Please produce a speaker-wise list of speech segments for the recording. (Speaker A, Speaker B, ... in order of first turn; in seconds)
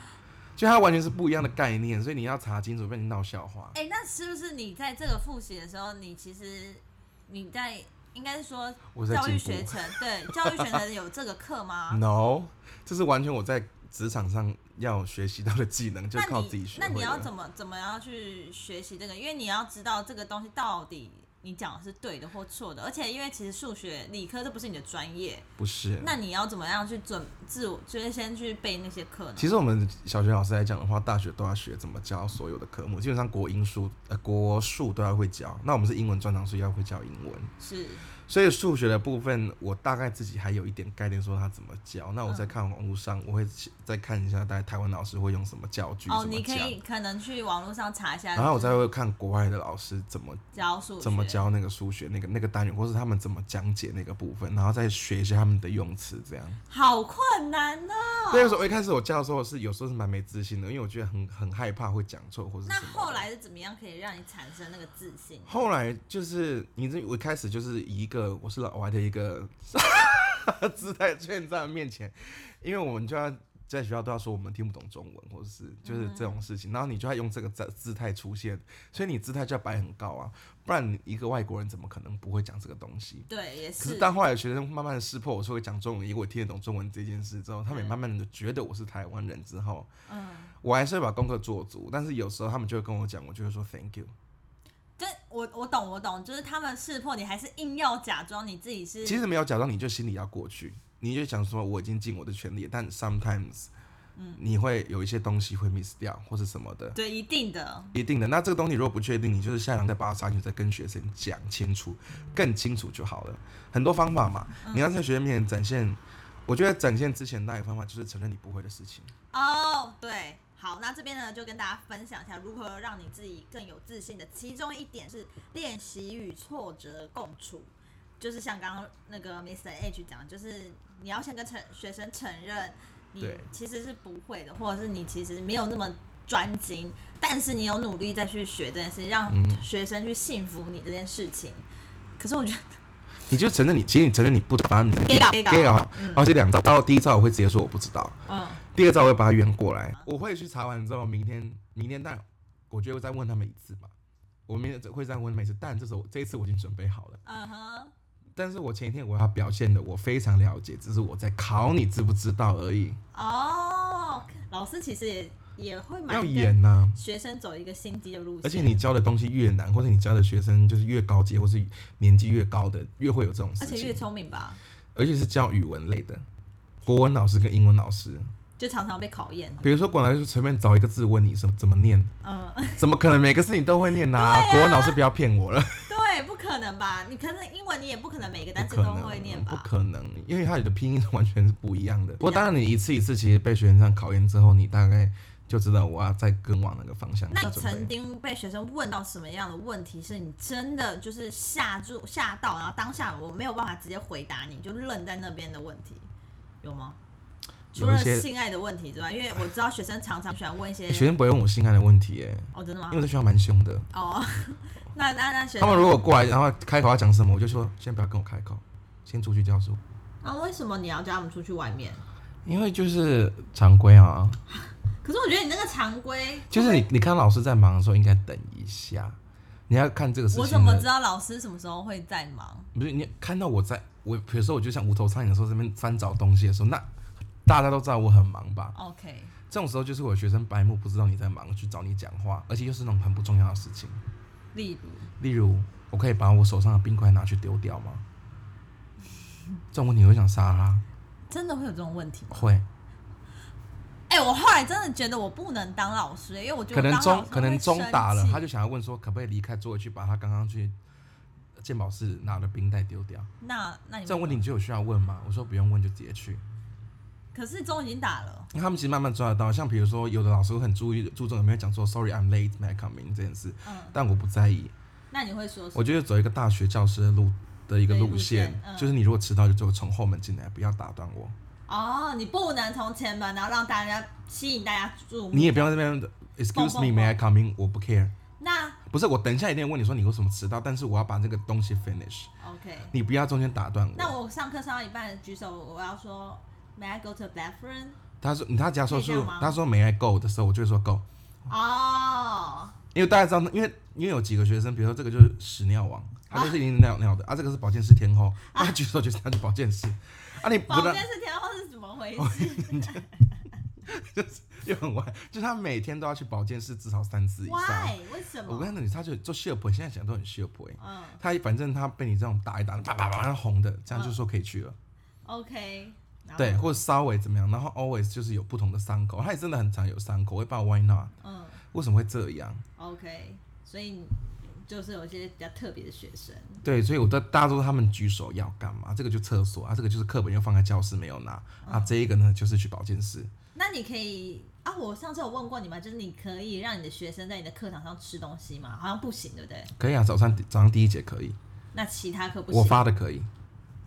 Speaker A: 0.6-3.7, 8.9-10.8, 11.9-17.3, 25.6-26.1, 29.4-37.5, 38.2-46.8, 48.4-50.4, 51.0-56.6, 58.3-63.3, 65.5-89.9, 90.6-94.1, 99.0-103.7, 104.3-107.0, 107.9-119.1, 133.2-133.5, 139.3-139.6, 143.3-153.9, 154.5-157.2, 158.3-163.0, 166.1-167.0, 168.4-174.0, 174.9-176.2, 176.8-178.3, 179.6-182.1, 182.8-185.9, 188.6-197.9, 207.7-208.3, 210.9-213.9, 215.6-219.8, 222.4-224.4, 226.5-230.9, 232.7-236.9, 237.4-238.7, 239.5-244.0, 245.2-248.0, 249.7-250.8, 252.3-252.7, 256.7-260.7, 261.6-263.3, 264.1-266.4, 268.5-274.7, 275.7-281.4, 285.3-288.1, 288.9-292.3, 292.9-294.1, 298.2-301.1, 302.9-311.1, 312.2-313.0, 313.8-324.8, 326.4-331.1, 331.7-332.6, 336.6-343.3, 349.8-351.4, 352.5-353.3
Speaker B: 3.7-12.0, 16.1-25.5, 26.0-29.6, 37.6-38.1, 42.3-42.5, 46.1-48.8, 50.5-51.5, 56.7-58.7, 62.6-65.6, 75.8-76.4, 83.3-84.1, 87.7-88.0, 90.1-90.5, 95.0-99.2, 106.9-107.9, 114.6-114.9, 119.3-141.6, 142.2-142.7, 145.0-146.2, 148.3-148.6, 157.2-157.9, 163.1-168.8, 173.6-174.6, 178.6-179.7, 182.2-182.8, 184.1-185.0, 185.9-189.7, 192.2-192.5, 197.3-206.1, 206.6-207.0, 207.7-211.1, 212.5-213.0, 213.9-216.0, 220.2-222.0, 224.5-226.9, 230.3-232.7, 238.7-239.3, 244.5-245.1, 251.3-252.5, 254.1-258.4, 263.4-264.4, 267.3-268.5, 273.6-274.0, 275.1-275.9, 277.9-278.9, 281.7-285.7, 286.5-287.2, 288.4-288.8, 292.4-292.9, 293.9-298.0, 298.9-299.6, 301.5-302.7, 306.3-306.6, 308.5-308.8, 310.4-313.5, 317.4-318.8, 320.8-321.2, 323.9-324.2, 325.2-326.8, 331.2-331.6, 332.8-336.6, 341.6-341.9, 343.5-349.7, 351.7-352.9